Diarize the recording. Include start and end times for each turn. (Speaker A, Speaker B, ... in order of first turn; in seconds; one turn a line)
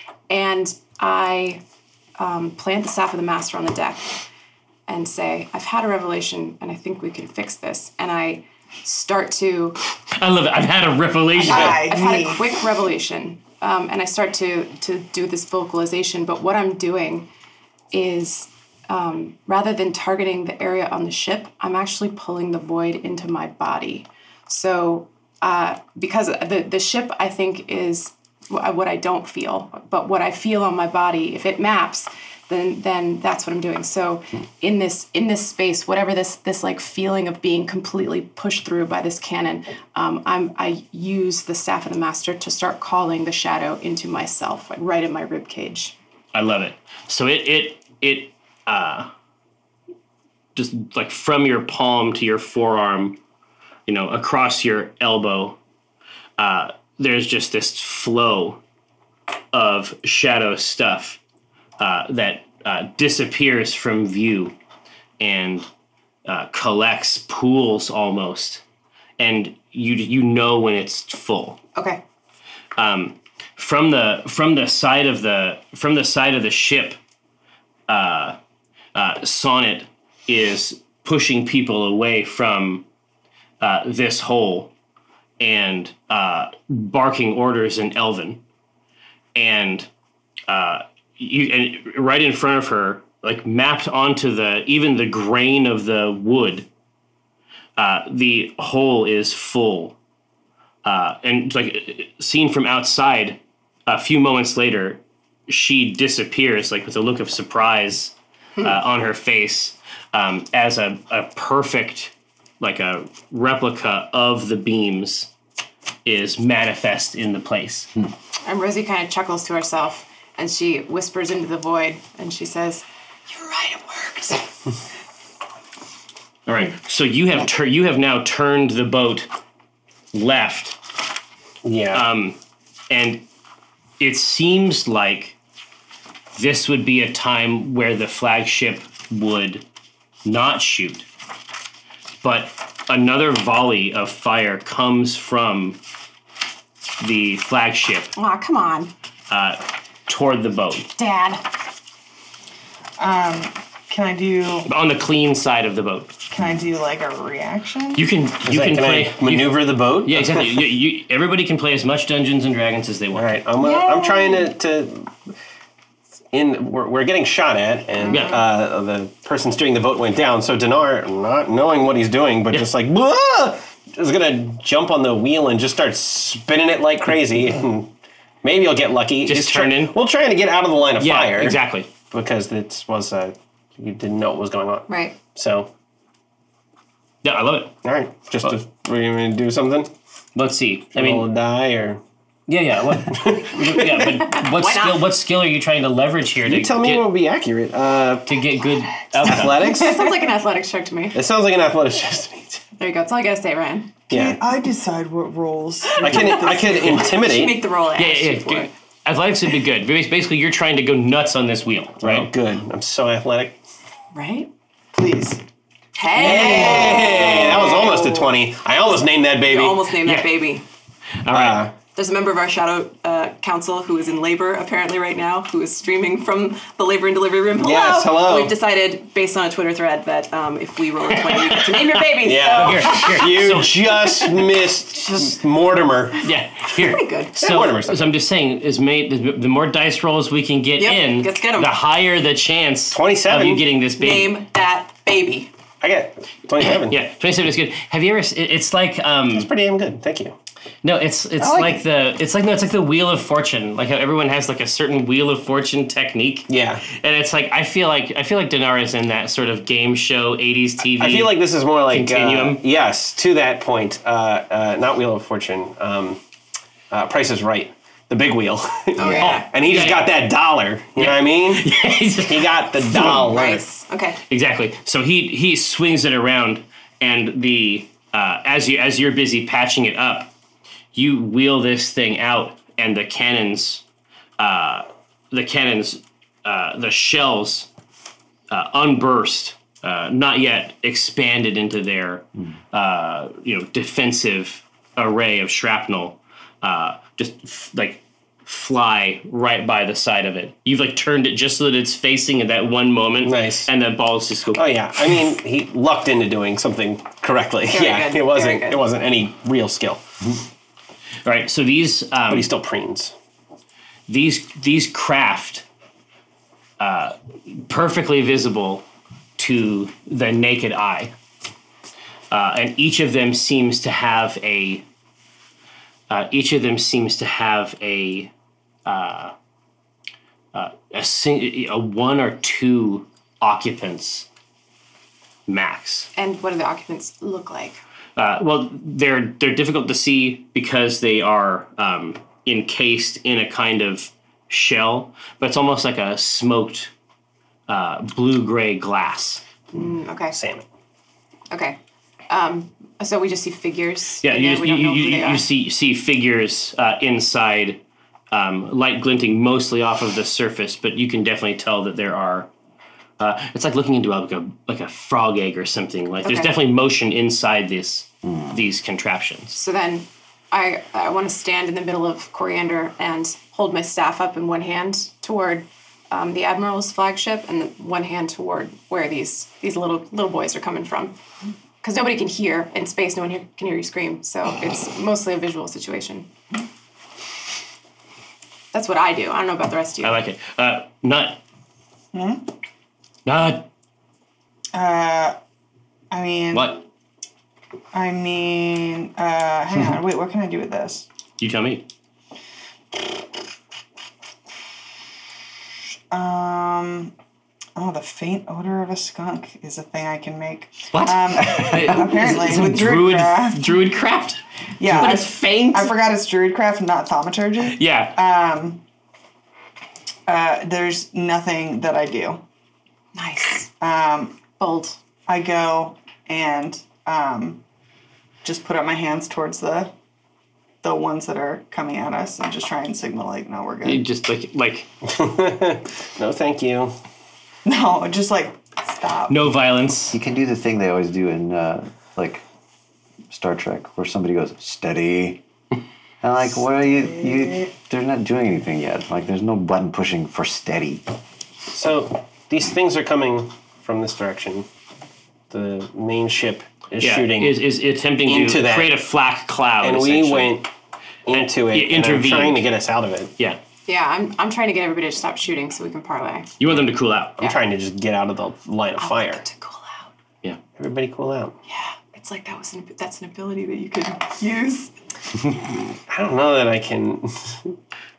Speaker A: 0.3-1.6
Speaker A: 2.2-4.1
Speaker A: 4.9-9.8
Speaker B: 10.1-11.9
Speaker A: 11.4-17.3
Speaker C: 11.4-12.4
Speaker A: 17.9-46.0
Speaker B: 46.3-49.1
Speaker B: 50.5-53.2
Speaker B: 53.9-55.6
Speaker B: 56.4-58.6
Speaker B: 59.5-61.2
Speaker B: 61.8-64.6
Speaker B: 65.2-65.7
Speaker B: 66.2-68.6
Speaker B: 69.2-71.6
Speaker A: 71.8-72.0
Speaker B: 72.8-77.0
Speaker B: 77.9-78.4
Speaker B: 79.0-82.8
Speaker B: 83.6-84.7
Speaker B: 85.4-88.4
Speaker B: 89.3-89.9
Speaker B: 90.5-96.7
Speaker B: 97.8-100.0
Speaker B: 100.8-115.3
Speaker B: 116.0-117.9
Speaker A: 118.5-124.7
Speaker B: 126.5-129.3
Speaker B: 130.1-130.8
Speaker D: 131.6-132.1
Speaker B: 131.9-132.4
Speaker B: 132.9-133.2
Speaker B: 134.0-135.4
Speaker B: 136.3-139.6
Speaker B: 140.2-141.1
Speaker B: 142.2-145.8
Speaker B: 147.0-148.1
Speaker A: 148.2-148.9
Speaker B: 149.3-150.9
Speaker A: 151.0-151.5
Speaker C: 153.0-154.7
Speaker B: 154.7-156.1
Speaker C: 156.3-158.1
Speaker B: 157.9-163.4
Speaker D: 158.4-160.6
Speaker D: 163.1-165.1
Speaker A: 163.6-164.5
Speaker D: 166.3-177.9
Speaker A: 168.0-168.4
Speaker B: 168.1-168.4
Speaker D: 178.4-185.7
Speaker B: 179.3-180.0
Speaker B: 181.0-181.9
Speaker A: 184.9-185.2
Speaker B: 187.2-187.8
Speaker D: 187.8-189.9
Speaker B: 190.3-191.3
Speaker D: 190.9-192.0
Speaker B: 192.5-197.1
Speaker D: 193.1-194.1
Speaker A: 194.3-195.1
Speaker D: 196.4-198.3
Speaker B: 198.3-199.7
Speaker D: 199.2-200.1
Speaker A: 199.5-201.2
Speaker D: 201.1-202.6
Speaker A: 202.8-204.0
Speaker D: 204.1-204.4
Speaker C: 204.1-207.2
Speaker A: 205.9-208.7
Speaker D: 206.0-207.6
Speaker B: 208.0-212.3
Speaker D: 212.0-213.6
Speaker A: 214.1-214.5
Speaker C: 214.9-215.4
Speaker A: 215.9-218.3
Speaker D: 216.1-219.9
Speaker C: 216.8-217.1
Speaker A: 219.4-220.6
Speaker B: 220.0-220.4
Speaker B: 221.2-221.7
Speaker D: 221.3-221.8
Speaker A: 221.9-233.3
Speaker D: 227.6-228.6
Speaker B: 231.1-234.0
Speaker D: 232.2-236.3
Speaker B: 236.2-244.4
Speaker A: 236.8-237.4
Speaker D: 237.4-238.1
Speaker A: 240.8-241.8
Speaker D: 242.9-243.7
Speaker A: 244.0-245.5
Speaker D: 245.8-247.0
Speaker B: 246.6-249.5
Speaker D: 249.3-250.3
Speaker B: 250.8-262.6
Speaker D: 251.5-251.8
Speaker D: 256.5-256.9
Speaker D: 260.9-266.2
Speaker D: 266.9-273.6
Speaker A: 269.0-269.5
Speaker B: 269.2-270.1
Speaker B: 271.0-273.2
Speaker A: 272.9-274.2
Speaker B: 274.3-280.3
Speaker B: 280.9-283.8
Speaker B: 284.4-287.7
Speaker B: 288.5-305.2
Speaker D: 303.2-303.7
Speaker D: 304.5-310.1
Speaker A: 307.7-308.8
Speaker B: 311.2-312.5
Speaker D: 312.3-313.1
Speaker B: 314.1-315.6
Speaker B: 316.8-318.9
Speaker B: 319.4-321.1
Speaker B: 322.3-324.9
Speaker B: 326.1-328.3
Speaker B: 328.9-329.3
Speaker B: 330.5-334.3
Speaker B: 335.5-336.1
Speaker A: 336.1-337.8
Speaker B: 338.2-346.9
Speaker B: 347.7-349.4
Speaker A: 349.7-350.4
Speaker D: 350.3-350.7
Speaker A: 351.5-351.8
Speaker A: 352.3-355.5
Speaker B: 354.2-362.5
Speaker B: 363.2-369.6
Speaker A: 366.2-366.6
Speaker A: 369.5-381.1
Speaker A: 381.8-386.3
Speaker A: 388.7-390.2
Speaker B: 390.0-391.4
Speaker C: 392.1-392.4
Speaker B: 393.3-393.7
Speaker C: 394.7-395.4
Speaker C: 396.1-396.7
Speaker B: 396.5-396.8
Speaker C: 397.9-401.1
Speaker B: 401.4-401.9
Speaker C: 406.1-407.1
Speaker C: 407.8-413.6
Speaker B: 410.9-416.0
Speaker C: 414.8-418.8
Speaker B: 417.7-418.2
Speaker C: 420.3-422.4
Speaker A: 423.1-423.7
Speaker C: 423.8-424.4
Speaker A: 424.6-425.0
Speaker C: 425.3-427.6
Speaker C: 428.4-429.9
Speaker C: 430.8-434.1
Speaker B: 433.9-434.9
Speaker D: 435.0-436.9
Speaker C: 437.7-439.5
Speaker B: 439.3-440.2
Speaker E: 440.1-442.4
Speaker E: 443.3-445.4
Speaker E: 446.2-451.0
Speaker C: 446.8-447.7
Speaker D: 451.7-454.7
Speaker D: 455.5-457.6
Speaker B: 457.0-460.6
Speaker D: 458.2-459.0
Speaker D: 459.8-460.7
Speaker D: 461.3-463.3
Speaker B: 461.3-462.7
Speaker A: 463.9-466.6
Speaker B: 466.6-467.4
Speaker D: 467.4-469.4
Speaker A: 469.0-470.1
Speaker D: 470.7-471.6
Speaker A: 471.7-474.9
Speaker D: 476.1-477.7